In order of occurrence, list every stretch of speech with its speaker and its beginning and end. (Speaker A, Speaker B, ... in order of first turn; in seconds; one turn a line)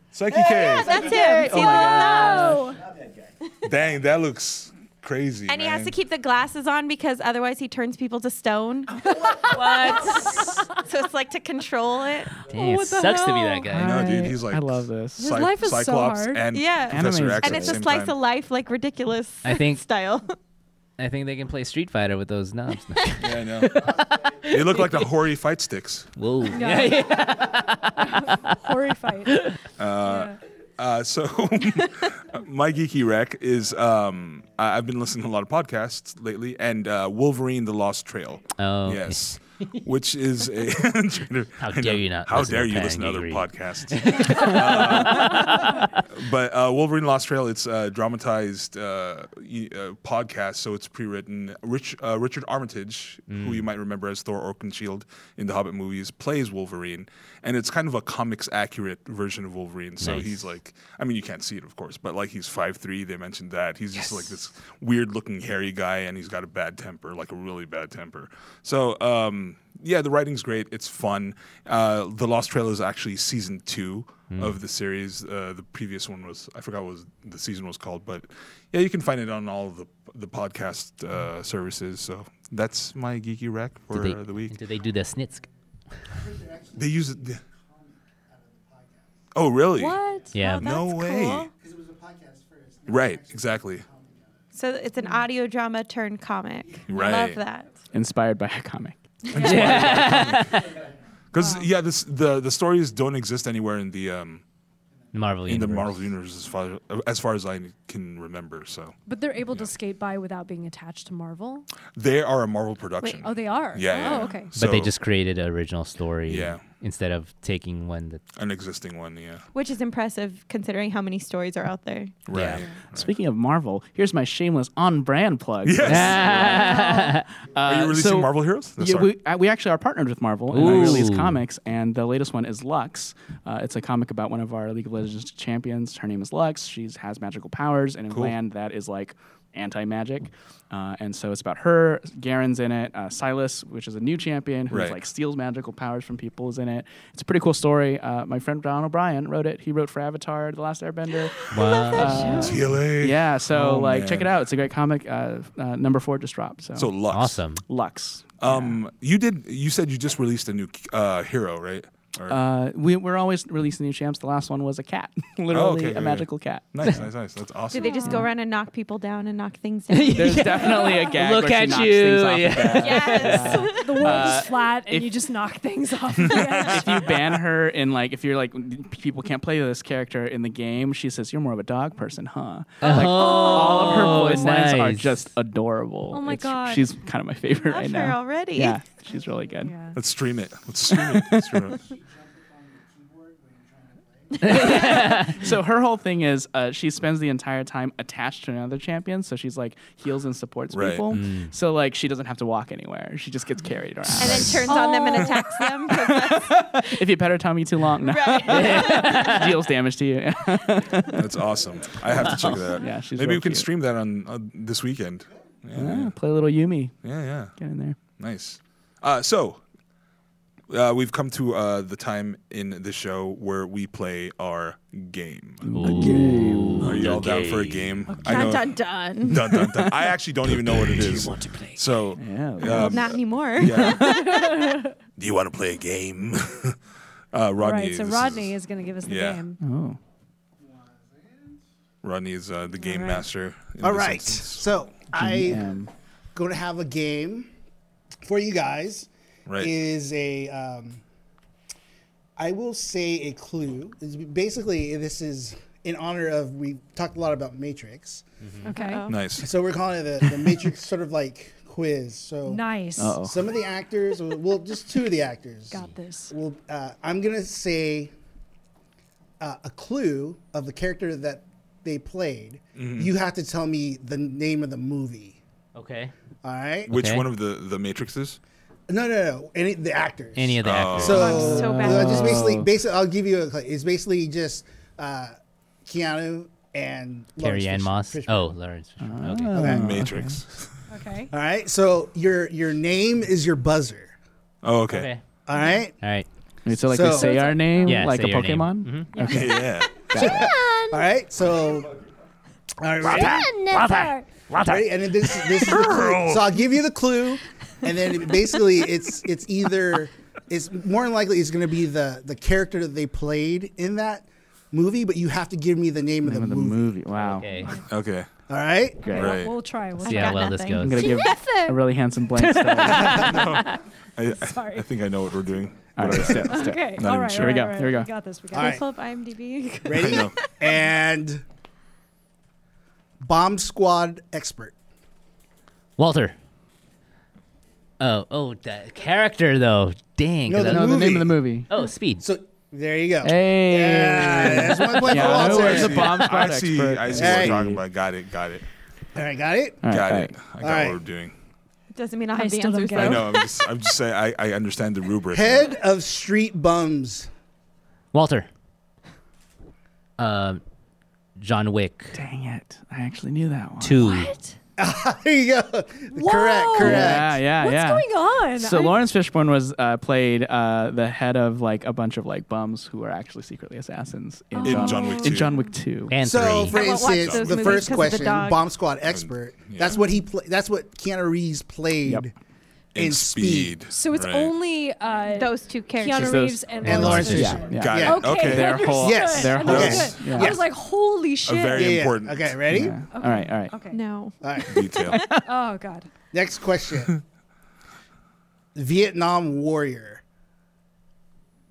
Speaker A: 0.1-1.1
Speaker B: 0.3-2.6
Speaker C: 0.5-2.7
Speaker D: 1.1-2.8
Speaker A: 3.6-5.9
Speaker B: 5.5-12.3
Speaker E: 9.4-10.6
Speaker D: 9.5-10.6
Speaker E: 12.5-14.1
Speaker D: 12.5-13.7
Speaker C: 13.7-15.4
Speaker A: 13.7-18.1
Speaker D: 15.2-16.5
Speaker B: 16.5-20.3
Speaker C: 16.9-17.8
Speaker E: 19.4-19.8
Speaker E: 21.0-25.1
Speaker A: 23.2-26.1
Speaker E: 26.2-28.6
Speaker D: 26.5-27.2
Speaker D: 28.0-29.5
Speaker E: 29.3-29.6
Speaker A: 29.8-84.6
Speaker D: 30.0-30.4
Speaker E: 38.6-39.2
Speaker E: 41.6-46.0
Speaker E: 53.3-53.6
Speaker E: 60.0-60.4
Speaker E: 74.3-74.6
Speaker E: 83.9-85.5
Speaker A: 86.7-87.4
Speaker A: 89.3-90.0
Speaker D: 89.8-90.4
Speaker B: 90.3-91.5
Speaker E: 90.3-90.7
Speaker A: 90.6-91.5
Speaker A: 92.9-93.9
Speaker B: 94.5-97.7
Speaker A: 96.9-97.4
Speaker C: 97.9-100.3
Speaker E: 99.3-100.8
Speaker A: 99.3-100.6
Speaker A: 101.3-104.4
Speaker D: 101.4-101.7
Speaker E: 105.1-106.0
Speaker A: 105.5-109.0
Speaker D: 109.1-111.7
Speaker A: 112.0-114.9
Speaker D: 113.2-114.5
Speaker E: 114.6-118.2
Speaker A: 116.3-116.6
Speaker A: 118.4-119.4
Speaker B: 119.5-122.1
Speaker A: 122.3-123.1
Speaker E: 122.3-122.6
Speaker C: 122.9-127.0
Speaker A: 125.6-126.7
Speaker E: 125.8-127.2
Speaker D: 126.5-127.2
Speaker C: 127.5-156.9
Speaker A: 127.6-129.1
Speaker E: 130.5-131.4
Speaker A: 130.6-131.1
Speaker A: 138.1-138.3
Speaker A: 144.7-145.0
Speaker B: 151.4-152.6
Speaker E: 151.5-152.5
Speaker A: 152.4-154.3
Speaker A: 156.8-157.4
Speaker E: 157.1-157.6
Speaker C: 157.7-158.8
Speaker A: 158.4-162.4
Speaker C: 162.3-167.0
Speaker A: 165.5-168.1
Speaker B: 167.7-170.8
Speaker D: 167.8-168.2
Speaker E: 169.9-173.7
Speaker C: 170.2-175.2
Speaker B: 172.7-174.4
Speaker D: 173.7-177.1
Speaker A: 176.2-177.4
Speaker C: 176.6-189.8
Speaker E: 182.8-185.3
Speaker D: 182.9-184.6
Speaker D: 186.1-186.9
Speaker B: 187.6-188.8
Speaker D: 189.6-190.0
Speaker A: 189.9-191.8
Speaker C: 190.9-191.8
Speaker E: 194.4-195.4
Speaker C: 194.4-204.7
Speaker A: 200.7-201.2
Speaker E: 201.1-201.5
Speaker B: 204.2-207.0
Speaker A: 204.2-204.6
Speaker D: 204.7-205.4
Speaker C: 205.8-211.3
Speaker B: 208.0-209.5
Speaker E: 208.5-209.5
Speaker A: 211.1-216.1
Speaker C: 212.1-213.7
Speaker C: 215.8-217.0
Speaker A: 217.0-217.6
Speaker C: 217.6-218.0
Speaker A: 218.1-219.6
Speaker A: 220.7-225.7
Speaker C: 225.6-226.9
Speaker E: 225.8-228.3
Speaker A: 226.8-228.7
Speaker B: 228.2-229.4
Speaker A: 229.2-234.4
Speaker E: 230.5-231.8
Speaker C: 232.2-233.2
Speaker B: 232.7-234.4
Speaker D: 233.8-234.9
Speaker A: 235.2-236.8
Speaker A: 237.3-239.4
Speaker D: 237.6-239.6
Speaker C: 239.6-240.0
Speaker A: 242.0-244.7
Speaker D: 242.8-243.2
Speaker F: 243.8-245.8
Speaker C: 245.1-245.9
Speaker F: 246.3-247.5
Speaker F: 248.2-251.0
Speaker A: 249.5-249.7
Speaker F: 252.4-258.2
Speaker D: 258.6-259.1
Speaker B: 258.7-259.3
Speaker A: 259.1-259.5
Speaker F: 259.4-268.1
Speaker D: 262.5-263.2
Speaker C: 263.0-263.4
Speaker D: 265.7-266.3
Speaker F: 269.4-275.4
Speaker A: 272.8-273.1
Speaker E: 275.8-276.1
Speaker F: 276.4-276.9
Speaker A: 276.9-278.4
Speaker E: 276.9-277.3
Speaker F: 278.9-285.3
Speaker E: 280.4-281.4
Speaker A: 280.6-281.3
Speaker D: 281.1-282.3
Speaker B: 281.2-282.4
Speaker C: 281.3-282.7
Speaker F: 285.9-288.5
Speaker E: 287.4-289.8
Speaker C: 289.0-290.4
Speaker F: 289.5-290.0
Speaker A: 289.6-290.7
Speaker D: 290.9-291.3
Speaker F: 291.3-294.1
Speaker A: 294.6-295.1
Speaker E: 294.9-295.2
Speaker F: 295.5-296.0
Speaker E: 296.0-296.3
Speaker C: 296.6-300.5
Speaker F: 296.8-297.7
Speaker D: 297.1-298.2
Speaker E: 297.8-299.4
Speaker D: 299.1-299.6
Speaker A: 299.2-300.1
Speaker D: 300.2-301.1
Speaker F: 300.2-301.9
Speaker F: 302.8-303.6
Speaker E: 303.0-305.6
Speaker D: 303.1-304.4
Speaker F: 304.6-317.0
Speaker A: 305.6-306.6
Speaker C: 316.2-317.8
Speaker E: 317.4-317.7
Speaker A: 317.9-318.3
Speaker F: 318.5-319.1
Speaker C: 319.0-319.4
Speaker A: 319.1-319.6
Speaker D: 319.1-321.8
Speaker B: 320.0-321.4
Speaker E: 320.1-321.1
Speaker C: 320.8-323.4
Speaker E: 322.4-323.8
Speaker A: 323.2-327.8
Speaker D: 323.4-323.8
Speaker D: 324.4-324.9
Speaker C: 326.0-328.1
Speaker D: 326.5-328.8
Speaker F: 328.5-328.9
Speaker B: 328.5-330.5
Speaker F: 329.9-331.4
Speaker A: 330.0-330.4
Speaker F: 333.2-334.7
Speaker E: 336.0-336.4
Speaker E: 338.0-340.9
Speaker F: 340.5-341.6
Speaker C: 340.6-341.7
Speaker E: 341.7-342.2
Speaker F: 342.2-346.3
Speaker C: 343.2-347.8
Speaker A: 345.1-348.6
Speaker F: 347.1-347.6
Speaker F: 349.1-349.8
Speaker C: 349.8-350.5
Speaker A: 349.9-351.3
Speaker F: 350.6-351.0
Speaker B: 351.9-353.5
Speaker D: 352.4-353.5
Speaker A: 352.9-355.8
Speaker F: 355.3-357.3
Speaker E: 358.1-358.5
Speaker E: 360.2-360.6
Speaker E: 361.4-362.1
Speaker C: 362.1-364.0
Speaker E: 363.8-364.3
Speaker D: 364.0-364.6
Speaker F: 364.8-367.4
Speaker D: 366.1-369.0
Speaker C: 366.8-376.2
Speaker D: 374.5-375.7
Speaker A: 374.6-375.6
Speaker E: 376.1-376.8
Speaker F: 376.1-382.3
Speaker A: 376.3-377.7
Speaker B: 376.7-378.7
Speaker A: 379.1-380.0
Speaker A: 382.9-384.5
Speaker F: 383.0-383.8
Speaker D: 383.8-391.9
Speaker B: 385.3-386.5
Speaker C: 386.1-390.6
Speaker F: 386.8-388.3
Speaker A: 386.9-388.9
Speaker F: 388.9-390.4
Speaker A: 389.6-390.6
Speaker A: 391.4-392.9
Speaker F: 391.7-393.1
Speaker C: 392.7-393.8
Speaker D: 393.1-394.0
Speaker B: 393.9-395.4
Speaker F: 394.4-394.9
Speaker A: 394.7-395.2
Speaker D: 395.3-396.1
Speaker F: 396.3-397.2
Speaker F: 398.8-400.2